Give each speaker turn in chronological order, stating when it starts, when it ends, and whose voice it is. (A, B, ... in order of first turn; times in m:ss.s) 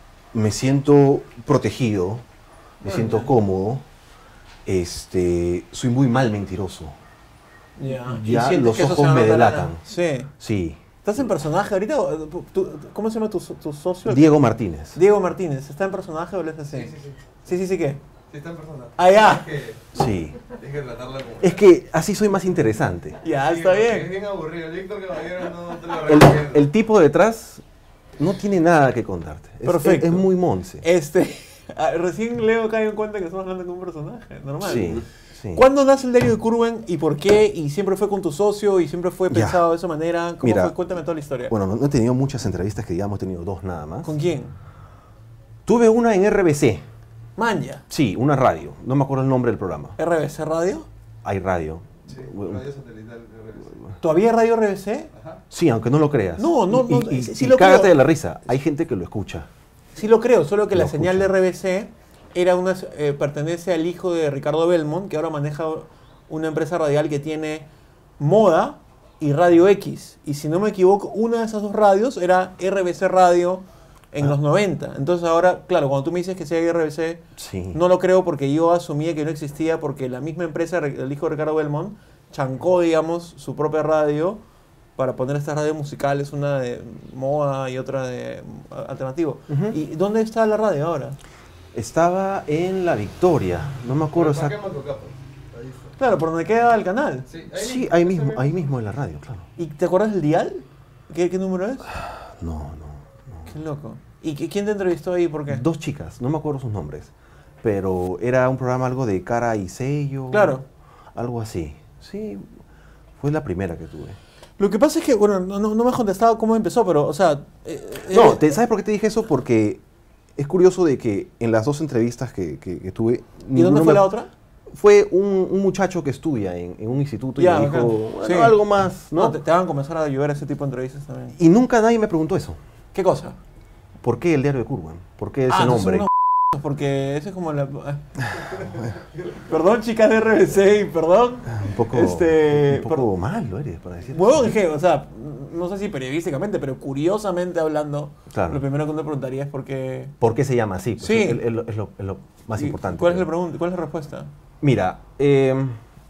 0:00.3-0:02.2 A
0:02.8-0:03.8 A
0:02.8-0:03.3 B
0:04.7-0:07.0 A
0:07.8-0:10.3 B
0:07.9-0:09.8 A
0:10.4-0:10.8 A
0:11.0-0:14.4 B
0:14.1-0:15.0 A
0:15.0-0:16.9 B
0:16.7-0:17.4 C
0:17.4-0:18.0 B
0:18.3-0:19.9 C
0:19.0-0:19.5 B
0:19.9-0:20.4 A
0:20.5-0:21.6 C
0:21.4-0:23.2 A
0:23.2-0:24.1 B
0:23.5-0:26.7 C
0:26.0-0:27.6 A
0:28.2-0:30.8 A
0:29.6-0:30.3 B
0:30.8-0:41.6 B
0:34.6-0:35.6 A
0:39.3-0:39.6 A
0:40.4-0:40.8 A
0:41.5-0:44.1 A
0:44.0-0:44.5 B
0:45.7-0:46.8 A
0:47.4-0:47.8 B
0:47.9-0:50.0 A
0:50.0-0:50.9 B
0:51.2-0:52.6 A
0:52.1-0:53.8 C
0:54.0-0:55.1 B
0:55.1-0:55.4 C
0:55.5-0:59.5 A
0:56.4-0:58.0 B
1:00.0-1:07.7 B
1:00.7-1:01.3 A
1:08.2-1:17.2 B
1:17.4-1:17.8 A
1:17.7-1:24.4 B
1:25.0-1:31.2 B
1:29.5-1:29.8 A
1:31.7-1:34.6 A
1:34.2-1:35.9 C
1:36.0-1:37.3 B
1:37.3-1:38.6 C
1:37.5-1:39.5 A
1:39.6-1:41.9 B
1:41.9-1:43.5 A
1:43.5-1:45.6 B
1:45.5-1:47.1 A
1:47.6-1:50.6 A
1:50.3-1:50.6 B
1:51.2-1:52.5 A
1:53.2-1:54.2 A
1:54.6-1:58.5 B
1:58.1-1:59.8 A
2:00.4-2:04.1 A
2:03.5-2:04.3 B
2:04.7-2:09.4 A
2:07.4-2:08.6 B
2:09.1-2:11.4 B
2:11.4-2:12.6 A
2:12.9-2:13.4 B
2:14.0-2:16.1 A
2:15.5-2:18.2 B
2:19.4-2:23.1 B
2:21.5-2:24.6 A
2:24.1-2:30.1 B
2:28.3-2:28.6 A
2:30.2-2:33.3 A
2:31.0-2:31.4 B
2:32.6-2:34.3 B
2:34.6-2:35.8 A